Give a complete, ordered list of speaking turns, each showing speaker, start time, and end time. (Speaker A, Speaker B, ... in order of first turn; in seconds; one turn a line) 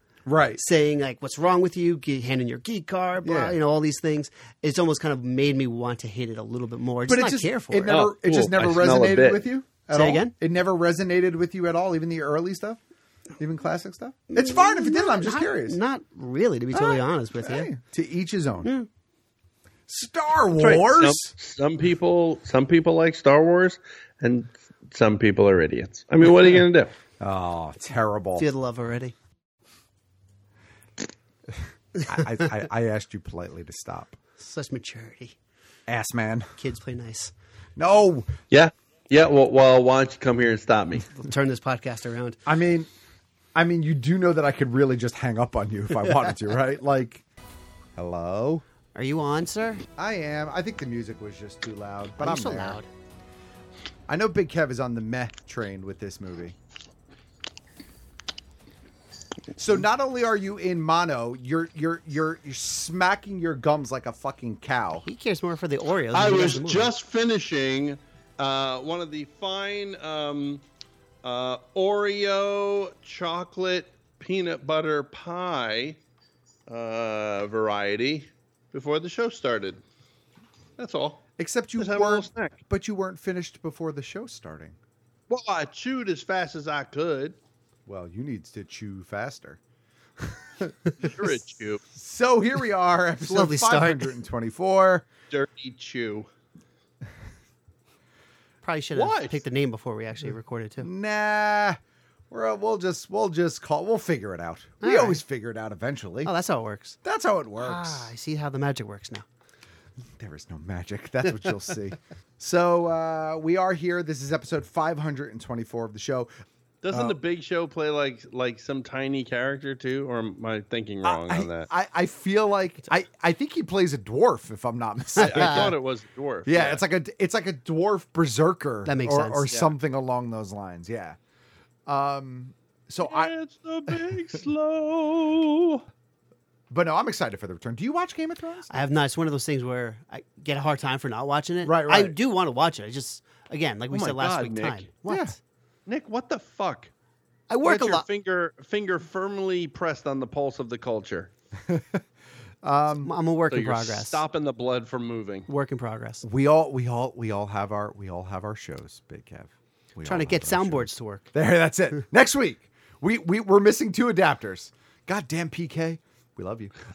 Speaker A: 0.2-0.6
Speaker B: 0.6-7.9
Speaker A: 3.2-3.6
Speaker A: 7.0-12.8
Speaker C: 7.9-9.4
Speaker B: 9.9-10.3
Speaker A: 13.4-15.8
Speaker B: 14.3-17.7
Speaker A: 16.7-18.7
Speaker A: 19.9-21.3
Speaker C: 20.5-26.9
Speaker A: 27.2-28.4
Speaker B: 28.4-29.1
Speaker A: 32.0-34.2
Speaker B: 34.4-35.4
Speaker A: 35.9-36.5
Speaker B: 36.6-37.3
Speaker A: 37.8-38.3
Speaker C: 38.5-41.1
Speaker B: 41.1-42.4
Speaker A: 42.5-42.9
Speaker A: 43.5-47.2
Speaker A: 48.0-48.6
Speaker B: 48.9-49.8
Speaker A: 50.0-52.8
Speaker B: 52.2-52.9
Speaker A: 54.1-56.5
Speaker A: 59.5-65.1
Speaker B: 65.0-66.9
Speaker C: 66.1-70.6
Speaker C: 71.2-76.0
Speaker C: 76.7-79.8
Speaker C: 80.8-81.2
Speaker A: 81.4-84.8
Speaker C: 81.8-82.6
Speaker C: 85.3-87.4
Speaker A: 87.8-89.6
Speaker A: 90.2-90.7
Speaker C: 91.0-91.8
Speaker A: 91.9-95.1
Speaker B: 93.2-94.2
Speaker C: 95.3-96.3
Speaker B: 98.6-100.9
Speaker C: 98.9-99.4
Speaker A: 100.8-101.8
Speaker A: 102.3-106.3
Speaker B: 104.8-105.2
Speaker B: 106.2-107.0
Speaker A: 107.0-108.1
Speaker B: 107.6-109.2
Speaker A: 110.2-116.3
Speaker C: 116.8-121.7
Speaker A: 116.9-117.2
Speaker A: 121.0-125.7
Speaker C: 125.2-126.8
Speaker B: 125.2-125.5
Speaker A: 126.5-131.2
Speaker B: 128.8-129.5
Speaker A: 131.9-133.3
Speaker C: 133.0-135.8
Speaker A: 136.7-138.8
Speaker B: 138.7-145.4
Speaker A: 141.6-142.2
Speaker C: 143.9-144.9
Speaker A: 145.1-145.3
Speaker C: 145.9-146.9
Speaker B: 147.5-148.0
Speaker C: 147.6-151.3
Speaker A: 151.7-152.0
Speaker A: 152.6-153.1
Speaker B: 153.0-154.2
Speaker C: 153.5-155.5
Speaker B: 155.5-156.2
Speaker A: 156.2-166.7
Speaker B: 160.0-161.2